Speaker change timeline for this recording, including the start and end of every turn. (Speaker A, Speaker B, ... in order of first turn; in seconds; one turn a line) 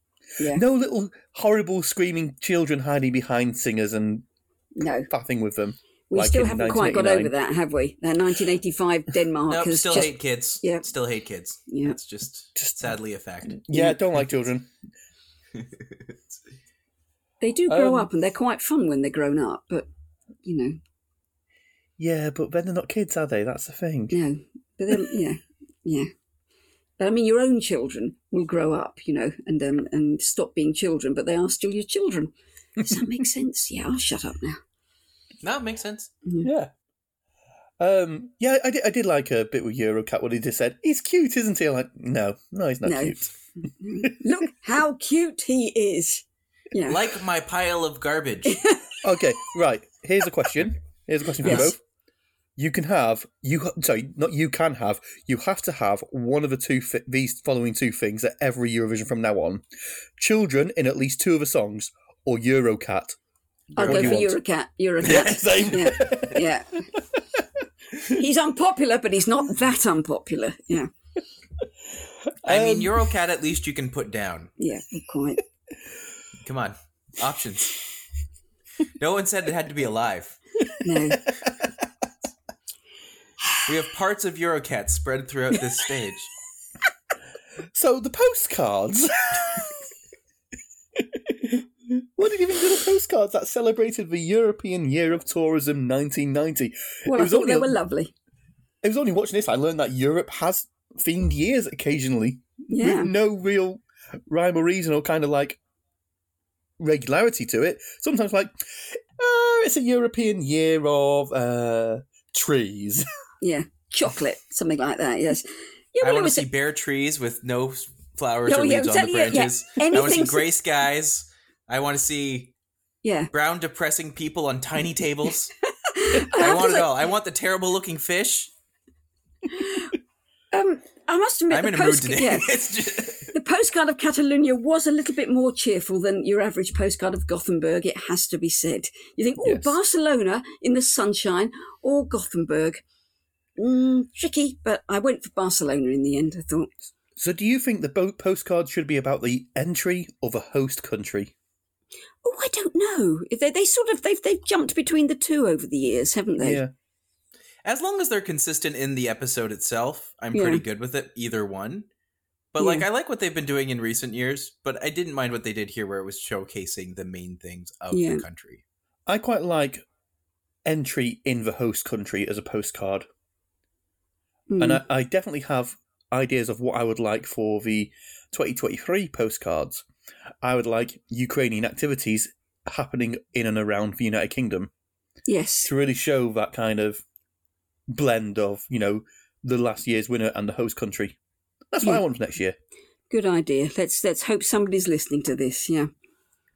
Speaker A: 0.5-4.2
Speaker B: 4.8-5.1
Speaker A: 5.1-7.3
Speaker B: 6.1-10.8
Speaker C: 9.5-13.6
Speaker B: 11.7-12.0
Speaker A: 12.6-12.9
Speaker A: 13.5-14.7
Speaker C: 15.6-16.1
Speaker B: 17.4-19.9
Speaker A: 17.7-18.1
Speaker B: 20.4-20.8
Speaker A: 22.0-24.2
Speaker B: 24.1-26.1
Speaker B: 27.0-32.3
Speaker B: 32.8-34.6
Speaker A: 32.9-33.2
Speaker C: 35.4-36.1
Speaker A: 36.4-36.7
Speaker A: 37.8-43.3
Speaker B: 42.8-47.1
Speaker C: 46.9-48.6
Speaker B: 48.5-49.0
Speaker A: 49.0-51.8
Speaker C: 51.4-51.7
Speaker B: 51.4-51.7
Speaker A: 52.6-59.6
Speaker A: 60.2-63.2
Speaker C: 63.8-64.3
Speaker B: 63.8-66.8
Speaker A: 63.8-64.3
Speaker A: 65.0-67.4
Speaker C: 65.0-65.7
Speaker B: 68.0-70.9
Speaker C: 72.5-74.5
Speaker A: 72.5-73.0
Speaker B: 74.6-75.4
Speaker C: 76.4-77.8
Speaker C: 79.0-80.4
Speaker B: 80.8-81.2
Speaker C: 83.7-86.3
Speaker A: 87.7-89.8
Speaker A: 91.0-97.8
Speaker B: 97.1-98.1
Speaker A: 98.8-105.6
Speaker B: 102.7-103.1
Speaker A: 106.8-113.1
Speaker B: 113.4-116.5
Speaker C: 116.0-122.5
Speaker B: 118.5-120.5
Speaker B: 123.0-123.3
Speaker C: 123.3-125.5
Speaker B: 125.8-126.9
Speaker C: 126.1-128.5
Speaker B: 129.6-129.9
Speaker B: 130.5-132.5
Speaker C: 131.5-133.3
Speaker B: 133.3-142.8
Speaker B: 143.6-146.7
Speaker A: 147.2-151.3
Speaker B: 152.2-156.6
Speaker A: 156.4-156.7
Speaker C: 157.7-161.9
Speaker B: 160.3-160.6
Speaker C: 162.5-168.6
Speaker B: 162.6-162.9
Speaker B: 167.9-168.2
Speaker A: 169.1-169.8
Speaker A: 170.7-173.1
Speaker B: 174.5-174.8
Speaker A: 174.6-179.8
Speaker A: 180.4-184.7
Speaker B: 185.3-185.7
Speaker A: 185.6-187.0
Speaker A: 187.9-191.2
Speaker A: 191.7-192.6
Speaker B: 193.1-195.9